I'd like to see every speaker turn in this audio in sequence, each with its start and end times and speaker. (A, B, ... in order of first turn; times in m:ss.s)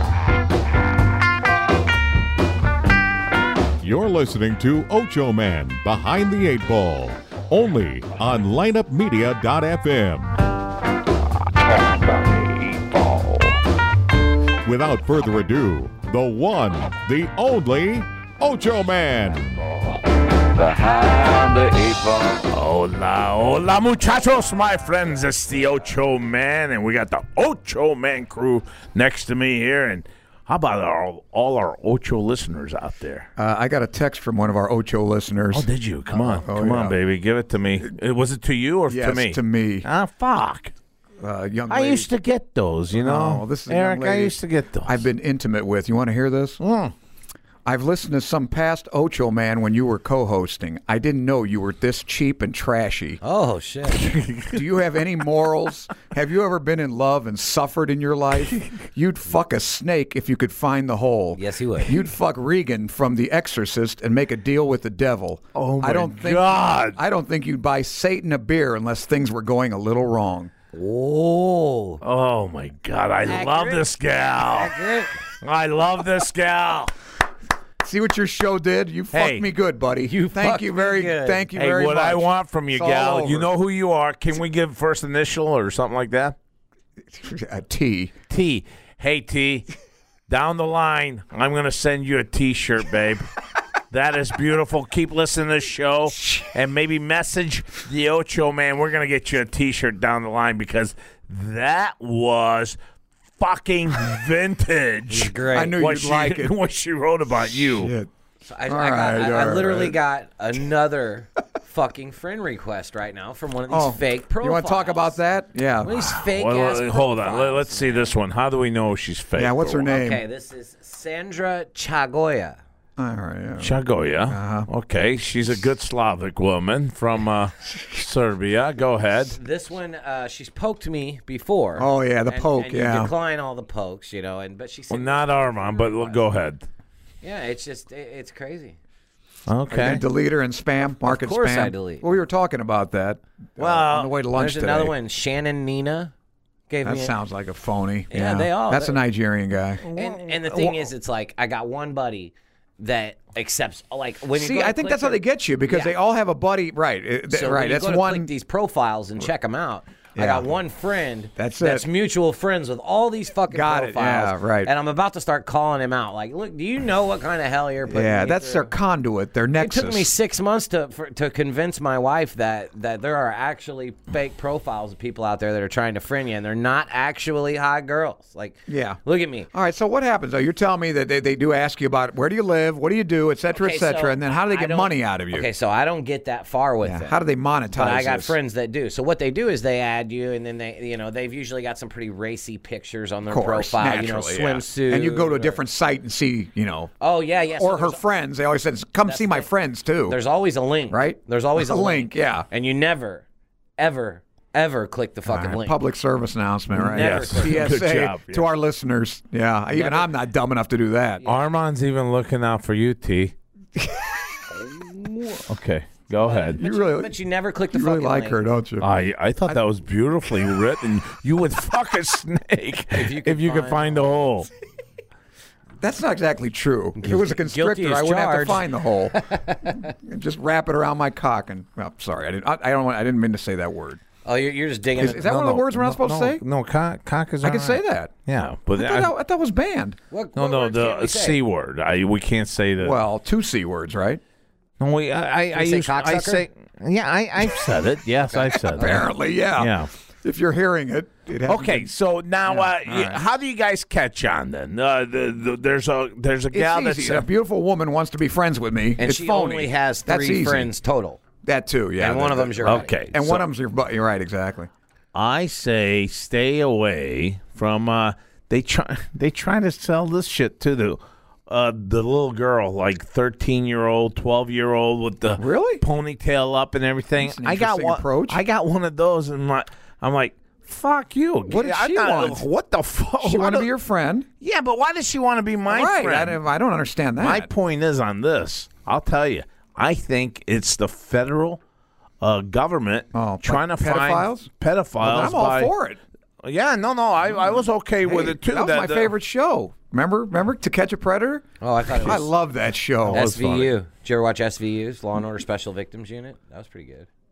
0:03.8-0:10.4 A
0:11.7-0:13.6 B
0:14.6-0:19.6 A
0:19.9-0:22.4 B
0:22.5-0:33.3 C
0:33.4-0:37.0 D
0:35.5-0:40.7 C
0:38.9-0:39.9 D
0:41.2-0:42.1 D
0:41.7-0:45.0 C
0:42.9-0:46.6 D
0:46.6-0:46.9 C
0:47.7-0:53.2 D
0:53.2-0:54.1 E
0:53.9-0:54.6 C
0:54.5-1:10.5 D
1:01.3-1:02.0 E
1:05.6-1:07.0 C
1:10.7-1:12.0 E
1:12.0-1:14.7 C
1:13.3-1:13.9 E
1:14.5-1:15.1 E
1:15.4-1:16.9 C
1:17.8-1:23.5 D
1:19.1-1:19.5 C
1:20.1-1:21.4 E
1:21.6-1:26.4 C
1:27.1-1:28.1 D
1:28.3-1:29.7 C
1:30.3-1:33.3 C
1:33.9-1:42.8 C
1:43.4-1:47.9 C
1:45.1-1:45.8 E
1:45.5-1:46.6 D
1:47.7-1:48.1 D
1:48.4-1:55.2 E
1:48.6-1:50.0 D
1:53.7-1:56.0 D
1:55.8-1:58.2 E
1:56.0-1:59.9 C
1:59.4-2:00.2 D
1:59.9-2:02.6 E
2:03.0-2:03.8 D
2:03.6-2:09.4 C
2:04.3-2:04.7 D
2:09.3-2:16.2 E
2:11.8-2:13.1 D
2:14.9-2:16.6 C
2:17.2-2:18.8 E
2:19.5-2:20.0 C
2:19.7-2:24.9 D
2:20.9-2:22.1 E
2:23.6-2:24.1 C
2:24.3-2:26.1 E
2:26.7-2:27.2 E
2:26.8-2:29.8 D
2:28.1-2:29.0 E
2:29.8-2:30.9 C
2:30.0-2:35.9 E
2:34.4-2:38.3 D
2:37.3-2:48.7 E
2:40.2-2:40.5 D
2:41.4-2:41.9 D
2:43.5-2:44.7 D
2:47.9-2:50.1 D
2:49.6-2:59.5 E
2:58.7-2:59.0 D
2:59.5-3:05.5 D
3:03.5-3:07.2 E
3:06.8-3:08.4 D
3:07.7-3:15.6 E
3:13.3-3:16.9 D
3:17.0-3:18.0 E
3:17.6-3:20.2 D
3:19.1-3:19.5 E
3:20.1-3:23.2 E
3:20.9-3:22.5 D
3:23.8-3:25.8 E
3:25.3-3:31.2 D
3:26.8-3:27.6 E
3:26.8-3:28.5 C
3:29.7-3:30.1 E
3:31.2-3:33.4 C
3:33.8-3:34.2 D
3:35.4-3:36.6 C
3:36.2-3:38.4 E
3:36.6-3:37.1 D
3:37.7-3:38.9 D
3:38.8-3:44.5 C
3:42.9-3:44.1 E
3:45.8-3:54.0 D
3:47.0-3:49.8 E
3:54.2-3:55.3 E
3:55.0-3:56.4 D
3:55.2-3:59.1 C
3:57.4-3:58.1 D
3:58.8-4:00.0 D
4:00.1-4:01.4 E
4:00.4-4:03.0 C
4:02.8-4:04.2 D
4:04.8-4:09.9 C
4:05.5-4:06.5 E
4:08.3-4:09.1 E
4:08.7-4:11.9 D
4:11.5-4:17.2 C
4:12.5-4:13.2 D
4:16.5-4:20.7 D
4:19.0-4:21.2 E
4:21.4-4:24.7 D
4:22.0-4:23.2 E
4:22.6-4:23.4 C
4:25.1-4:43.7 C
4:35.4-4:35.8 D
4:37.2-4:38.4 D
4:41.5-4:42.4 D
4:43.2-4:44.3 D
4:44.4-4:46.4 C
4:45.7-4:47.5 D
4:47.2-4:51.6 C
4:52.2-4:55.7 C
4:53.1-4:54.5 D
4:55.0-4:56.0 D
4:56.4-4:59.1 C
4:58.0-5:03.2 D
5:01.6-5:02.3 E
5:03.1-5:03.7 C
5:03.1-5:07.1 E